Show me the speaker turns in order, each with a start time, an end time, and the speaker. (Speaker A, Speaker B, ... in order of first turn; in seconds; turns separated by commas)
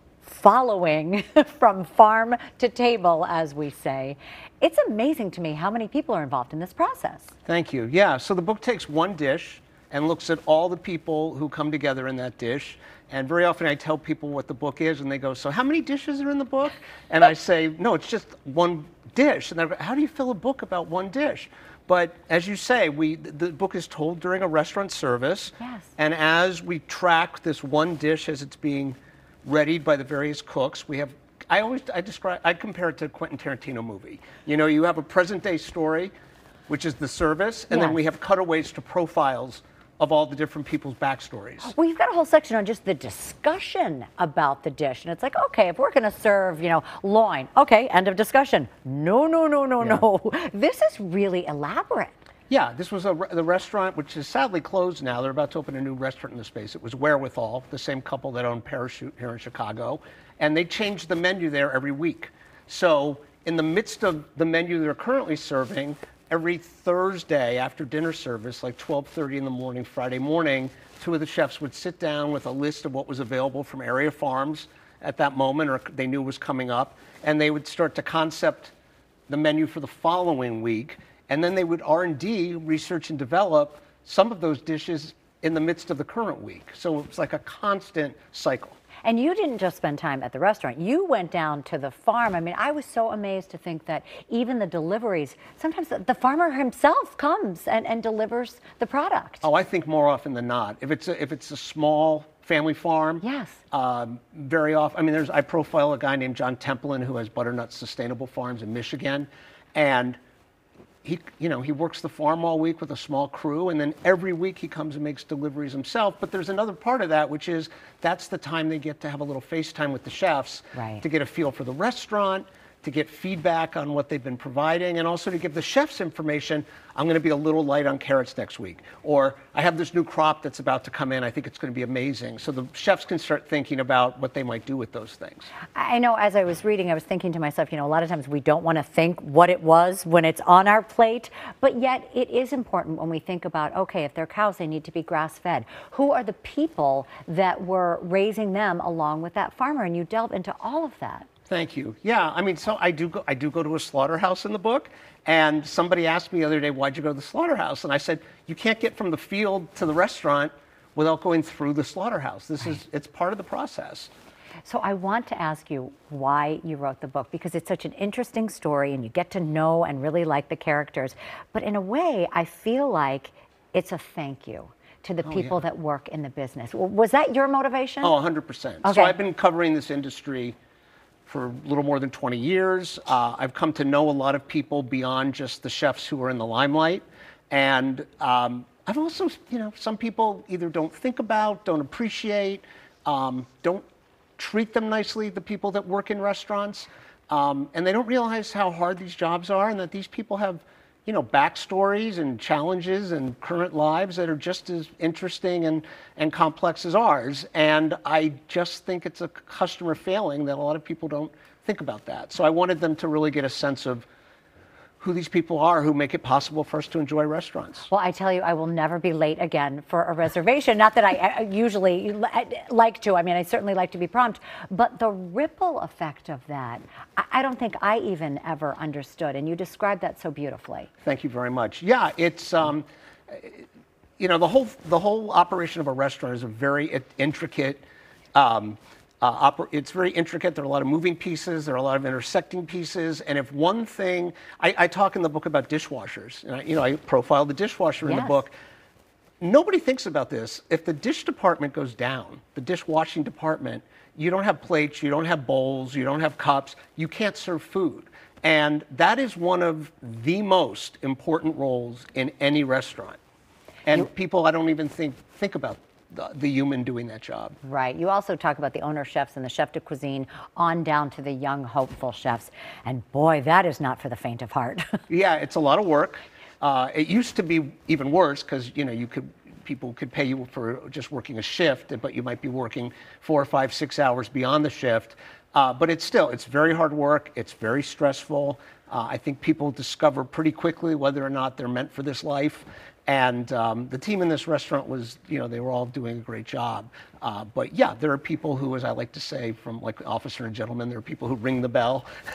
Speaker A: 0.2-7.3, Speaker B: 7.5-36.1, Speaker A: 25.6-25.9, Speaker B: 36.7-41.7, Speaker A: 37.7-38.0, Speaker A: 41.6-52.2, Speaker B: 52.5-78.7, Speaker B: 79.3-88.8, Speaker A: 89.0-99.4, Speaker B: 99.4-110.2, Speaker A: 103.2-103.6, Speaker B: 111.0-135.5, Speaker A: 120.8-121.0, Speaker A: 135.7-151.3, Speaker B: 151.5-164.1, Speaker A: 164.6-178.1, Speaker B: 175.2-175.6, Speaker B: 178.0-180.6, Speaker A: 178.8-179.2, Speaker B: 181.2-193.8, Speaker B: 194.4-214.1, Speaker B: 215.0-217.9, Speaker A: 217.9-230.9, Speaker B: 231.1-233.6, Speaker B: 234.2-237.8, Speaker B: 238.3-248.5, Speaker A: 248.0-248.4, Speaker B: 249.4-263.2, Speaker B: 263.9-267.6, Speaker A: 267.6-275.0, Speaker B: 275.1-302.1